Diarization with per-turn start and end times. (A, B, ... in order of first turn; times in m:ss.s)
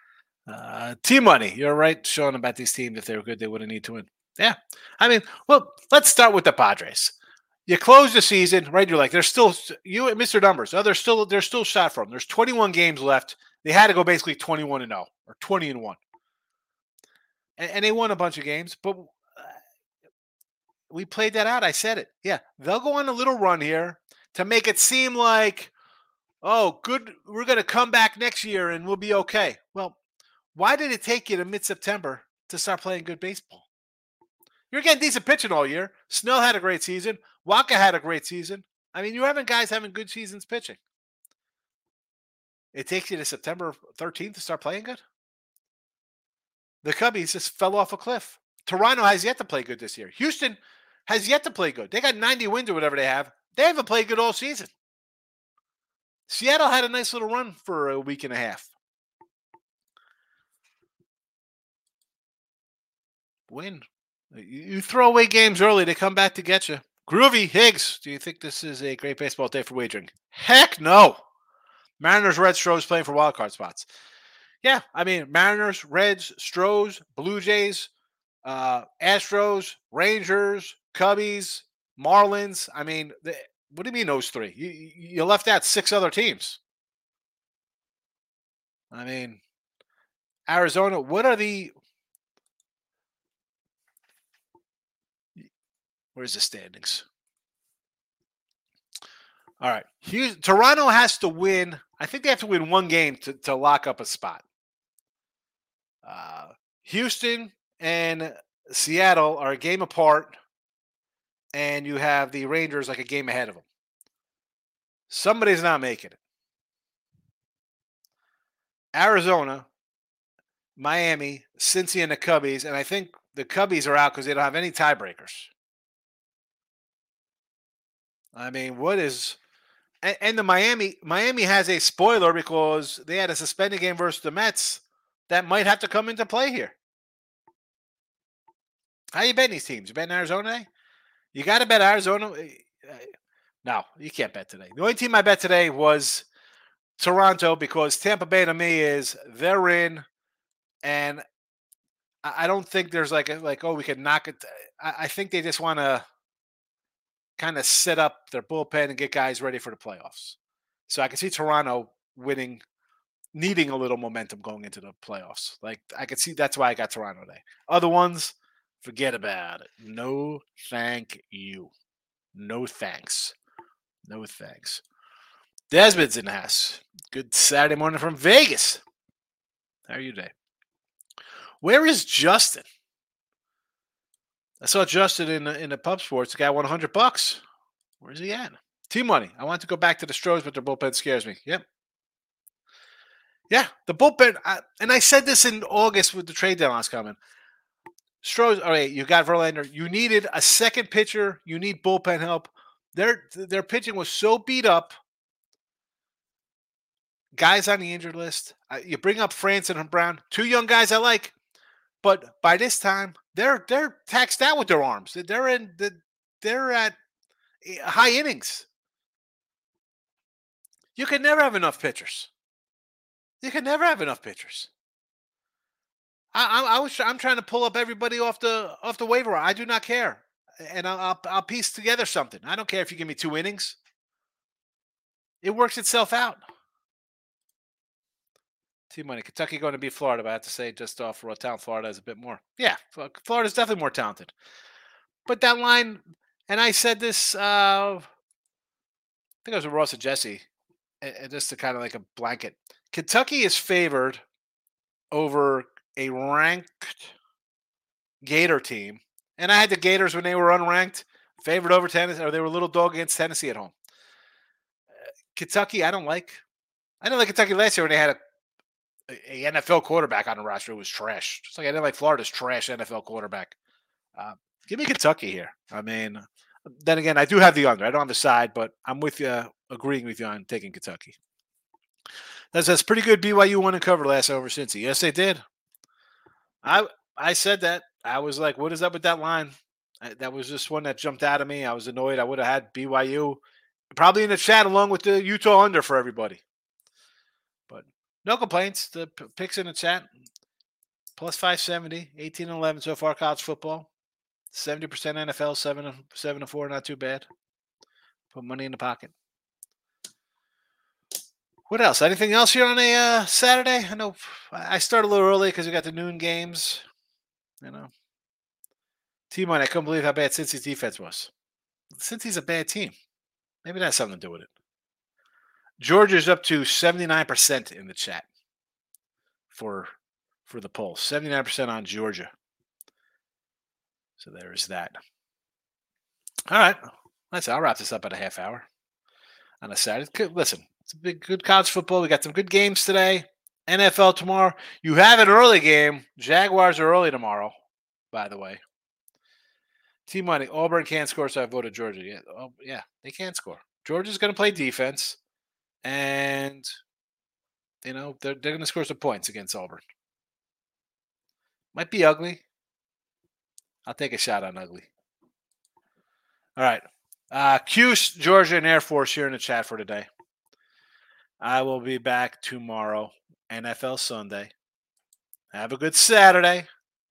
0:00.5-0:07.1 A
0:07.7-0:16.0 A
0:17.6-0:19.6 A
0:20.9-0:25.7 A
0:26.4-0:30.0 A
0:30.5-0:33.7 A
0:34.7-0:40.8 A
0:42.7-0:45.0 A
0:46.8-0:54.7 A
0:56.3-0:58.7 A
1:03.5-1:11.2 A
1:12.0-1:13.9 A
1:14.6-1:17.9 A
1:18.4-1:26.6 A
1:28.9-1:29.4 A
1:30.5-1:31.7 A
1:36.1-1:37.0 A
1:39.6-1:44.4 A
1:46.0-1:50.4 A
1:51.5-1:53.6 A
1:55.1-1:56.2 A
1:58.9-1:59.7 A
2:00.8-2:05.5 A
2:08.3-2:09.4 A
2:10.0-2:16.7 A
2:19.1-2:20.7 A
2:21.3-2:23.1 A
2:23.6-2:26.2 A
2:27.0-2:30.0 A
2:30.8-2:31.2 A
2:32.2-2:36.0 A
2:37.4-2:40.4 A
2:40.9-2:42.6 A
2:43.3-2:51.7 A
2:52.3-2:53.3 A
2:54.0-2:54.8 A
2:55.7-2:58.8 A
2:59.9-3:00.3 A
3:01.6-3:02.6 A
3:04.6-3:07.4 A
3:08.0-3:11.6 A
3:13.5-3:17.2 A
3:18.2-3:24.9 A
3:27.4-3:31.3 A
3:32.0-3:37.0 A
3:37.6-3:38.7 A
3:40.9-3:42.3 A
3:43.4-3:44.7 A
3:46.3-3:53.8 A
3:55.4-3:56.4 A
3:58.9-4:04.3 A
4:05.2-4:08.1 A
4:09.4-4:10.4 A
4:11.0-4:14.2 A
4:15.1-4:17.1 A
4:18.2-4:23.7 A
4:25.3-4:26.4 A
4:27.0-4:28.2 A
4:29.1-4:33.6 A
4:34.2-4:41.2 A
4:42.5-4:45.4 A
4:46.6-4:53.4 A
4:53.9-4:56.4 A
4:57.7-5:00.1 A
5:01.2-5:03.9 A
5:04.5-5:07.3 A
5:08.3-5:09.1 A
5:11.7-5:16.8 A
5:17.6-5:17.9 A
5:19.3-5:21.3 A
5:21.9-5:22.9 A
5:23.6-5:24.5 A
5:25.8-5:28.2 A
5:29.5-5:29.9 A
5:30.4-5:32.3 A
5:34.2-5:35.0 A
5:36.5-5:38.6 A
5:39.6-5:47.5 A
5:48.1-5:48.6 A
5:50.1-5:55.2 A
5:55.8-5:56.7 A
5:57.8-5:59.8 A
6:01.7-6:02.4 A
6:03.8-6:04.9 A
6:06.6-6:10.1 A
6:11.4-6:14.5 A
6:15.5-6:16.7 A